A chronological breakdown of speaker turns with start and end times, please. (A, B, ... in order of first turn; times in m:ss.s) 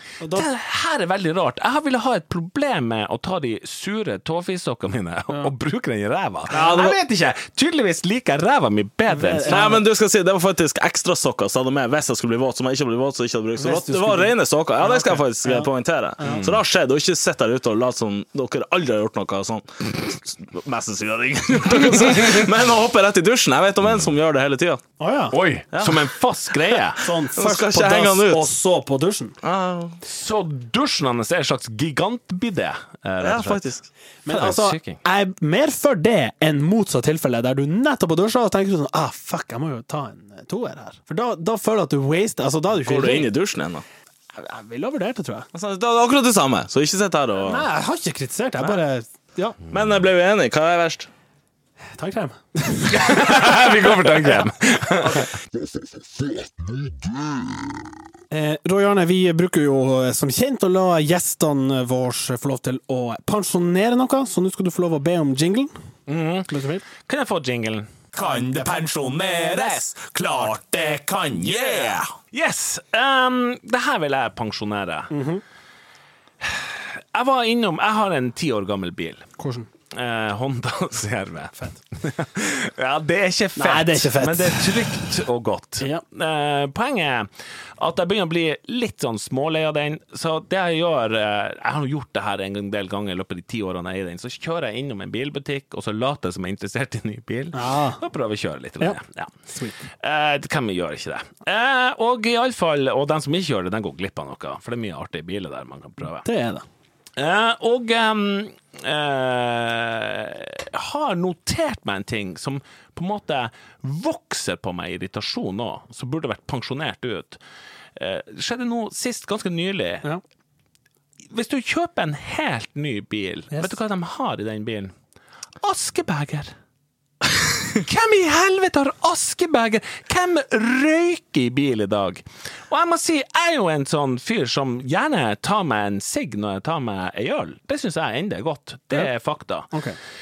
0:00.2-0:00.5 A
0:00.3-0:09.7 B
0:06.5-0:07.0 C
0:06.5-0:06.9 A
0:09.1-0:09.8 A
0:09.4-0:24.8 C
0:13.6-0:16.5 A
0:16.2-0:16.5 B
0:25.0-0:25.4 A
0:25.3-0:27.1 B
0:25.7-0:26.1 C
0:27.0-0:29.4 A
0:27.3-0:28.5 C
0:29.4-0:30.0 C
0:30.1-0:33.6 B
0:33.2-0:33.9 C
0:34.3-0:43.3 A
0:34.3-0:35.0 B
0:42.8-0:43.8 C
0:44.3-0:45.5 A
0:45.5-0:47.7 C
0:47.4-0:49.6 A
0:49.7-0:51.1 C
0:51.9-0:54.3 A
0:52.9-0:55.3 B
0:58.3-1:05.7 A
1:06.1-1:08.1 B
1:06.5-1:06.9 A
1:08.2-1:08.7 A
1:08.6-1:10.5 B
1:10.6-1:12.0 C
1:11.4-1:15.1 B
1:15.1-1:15.4 A
1:16.4-1:19.3 B
1:19.4-1:19.7 A
1:19.9-1:39.4 B
1:23.6-1:24.9 A
1:37.5-1:38.0 A
1:39.5-1:39.8 A
1:40.0-1:46.2 B
1:46.2-1:46.6 A
1:47.2-1:57.4 B
1:58.0-2:00.1 B
2:01.3-2:04.9 B
2:05.6-2:06.5 B
2:07.8-2:19.7 B